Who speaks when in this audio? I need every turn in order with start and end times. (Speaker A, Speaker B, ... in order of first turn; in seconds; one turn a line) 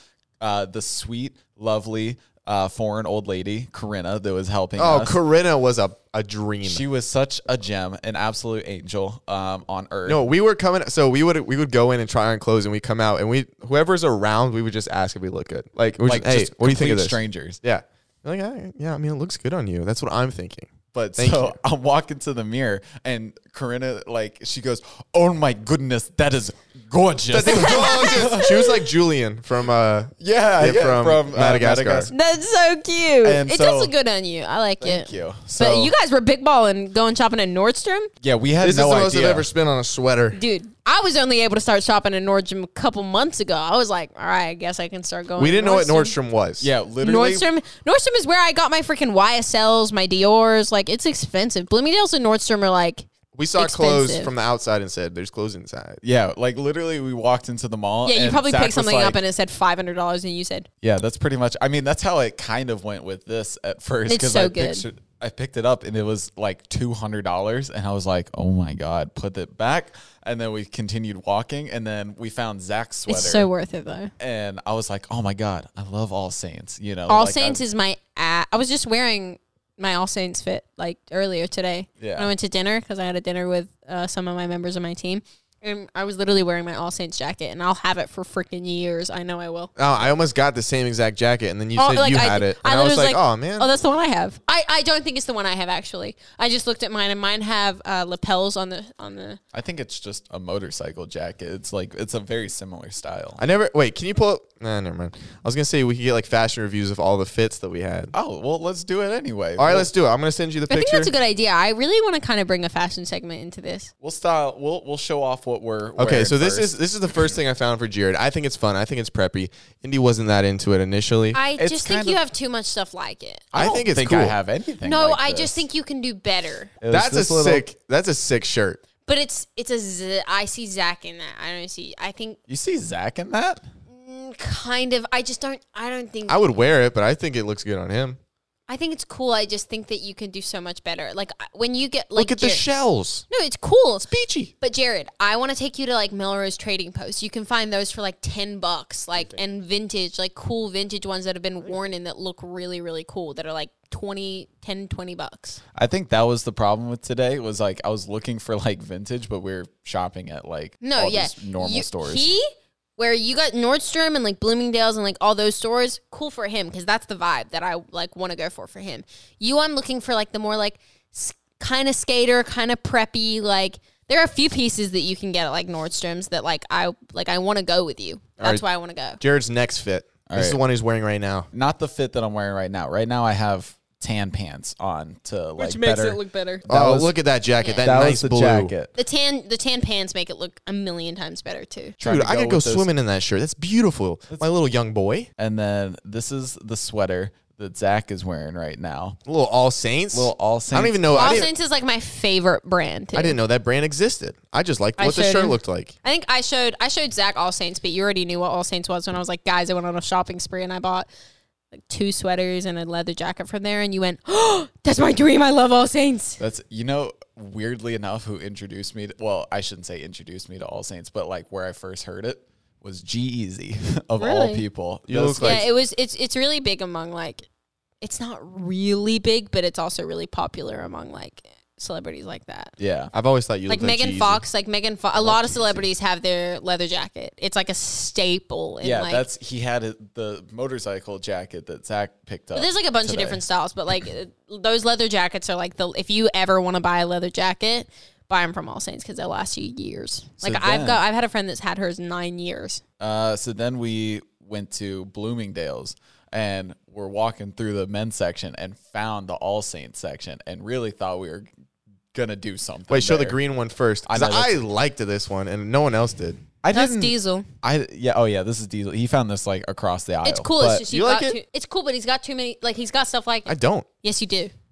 Speaker A: 0.4-5.2
Speaker B: 4.8-6.8
Speaker A: 6.6-10.2
Speaker B: 10.1-21.6
Speaker A: 16.1-17.6
Speaker A: 20.9-28.5
Speaker B: 27.3-32.1
Speaker C: 27.5-28.8
Speaker A: 30.2-32.1
Speaker C: 32.1-38.1
Speaker A: 33.2-33.9
Speaker A: 34.8-35.9
Speaker B: 35.5-35.9
Speaker A: 38.2-39.5
Speaker B: 38.6-40.4
Speaker C: 40.3-46.1
Speaker B: 45.4-46.7
Speaker A: 46.6-47.5
Speaker C: 47.0-54.3
Speaker B: 53.4-56.0
Speaker A: 56.0-59.2
Speaker C: 58.1-60.7
Speaker A: 60.8-73.5
Speaker C: 64.1-64.8
Speaker C: 73.1-74.1
Speaker A: 74.2-77.6
Speaker C: 77.1-89.7
Speaker A: 82.0-82.3
Speaker B: 89.8-93.7
Speaker C: 91.8-99.4
Speaker A: 99.5-103.4
Speaker B: 103.4-108.1
Speaker A: 108.1-109.9
Speaker B: 109.6-111.1
Speaker C: 110.7-113.9
Speaker A: 114.0-116.8
Speaker B: 116.0-121.4
Speaker C: 121.3-123.5
Speaker A: 121.6-122.2
Speaker A: 123.5-125.6
Speaker B: 123.5-124.3
Speaker C: 124.8-126.7
Speaker A: 126.8-127.6
Speaker B: 126.9-128.8
Speaker C: 129.1-132.4
Speaker A: 132.5-133.6
Speaker C: 133.9-136.5
Speaker B: 136.3-138.2
Speaker C: 138.7-142.6
Speaker B: 142.2-143.3
Speaker C: 143.3-144.1
Speaker B: 144.1-144.5
Speaker C: 144.6-155.6
Speaker A: 155.8-162.3
Speaker C: 160.8-162.4
Speaker C: 163.0-179.2
Speaker B: 179.2-181.5
Speaker A: 180.3-180.6
Speaker A: 181.5-187.1
Speaker C: 185.6-186.6
Speaker B: 186.7-188.7
Speaker C: 187.6-187.9
Speaker A: 187.8-188.9
Speaker C: 188.9-192.0
Speaker A: 192.0-192.9
Speaker B: 192.0-195.3
Speaker A: 195.4-199.2
Speaker B: 199.3-201.5
Speaker A: 200.1-201.5
Speaker C: 201.1-203.4
Speaker B: 203.1-205.9
Speaker C: 205.0-211.1
Speaker C: 211.7-216.4
Speaker A: 216.4-225.6
Speaker C: 224.2-224.6
Speaker B: 225.1-225.7
Speaker C: 225.4-227.4
Speaker C: 228.0-232.7
Speaker A: 232.8-233.1
Speaker B: 233.1-234.4
Speaker C: 233.7-239.2
Speaker A: 235.2-235.9
Speaker A: 238.8-243.4
Speaker C: 242.5-252.8
Speaker A: 250.4-251.0
Speaker A: 253.0-261.5
Speaker A: 262.1-263.4
Speaker B: 262.9-266.4
Speaker A: 264.1-264.6
Speaker A: 266.6-270.8
Speaker C: 266.7-267.5
Speaker C: 270.2-274.5
Speaker B: 270.9-271.4
Speaker B: 273.4-273.9